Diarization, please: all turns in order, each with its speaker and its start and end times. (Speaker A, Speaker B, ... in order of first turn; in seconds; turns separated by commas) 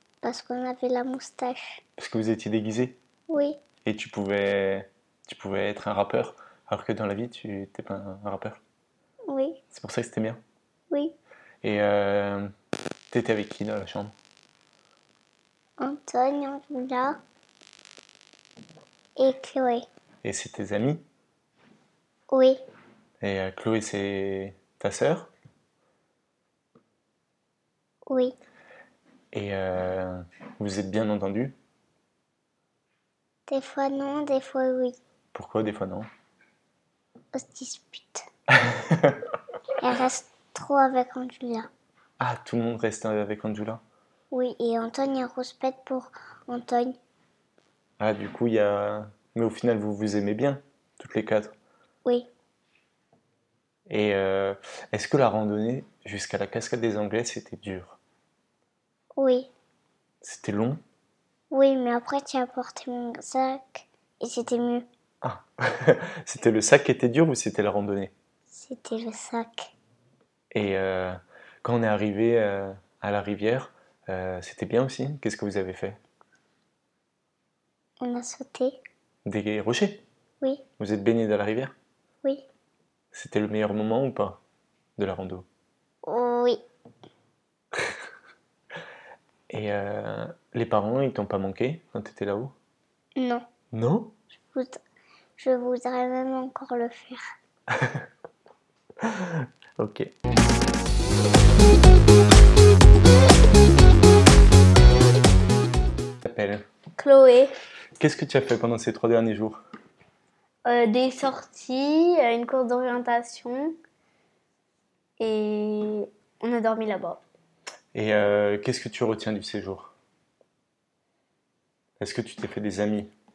Speaker A: 0.2-1.8, Speaker B: 2.0-3.0, Speaker A: 3.3-3.6, Speaker B: 3.9-8.6, Speaker A: 9.3-9.6, Speaker B: 9.7-10.4, Speaker B: 11.6-12.5, Speaker B: 13.1-14.1, Speaker A: 15.8-17.2, Speaker A: 19.2-19.9, Speaker B: 20.2-21.0, Speaker A: 22.3-22.6, Speaker B: 23.2-25.3, Speaker A: 28.1-28.4, Speaker B: 29.3-31.6, Speaker A: 33.5-35.0, Speaker B: 35.3-36.1, Speaker A: 37.3-38.2, Speaker B: 38.5-39.3, Speaker A: 39.8-41.7, Speaker B: 42.2-43.8, Speaker A: 44.3-47.0, Speaker B: 48.0-51.5, Speaker B: 53.9-58.0, Speaker A: 59.2-59.5, Speaker B: 60.2-60.8, Speaker A: 61.5-64.9, Speaker B: 65.2-68.1, Speaker A: 68.5-69.7, Speaker B: 70.5-76.0, Speaker A: 78.0-78.8, Speaker B: 79.2-80.0, Speaker B: 80.8-81.7, Speaker B: 83.1-84.4, Speaker B: 85.0-85.5, Speaker A: 86.0-86.6, Speaker B: 89.5-92.5, Speaker A: 93.2-93.5, Speaker B: 93.7-94.2, Speaker A: 94.5-94.8, Speaker A: 95.4-97.2, Speaker B: 97.7-98.1, Speaker B: 99.0-100.1, Speaker B: 106.2-106.7, Speaker C: 107.0-107.5, Speaker B: 108.0-109.6, Speaker C: 110.7-113.8, Speaker C: 115.2-117.2, Speaker B: 117.9-119.9, Speaker B: 122.0-123.1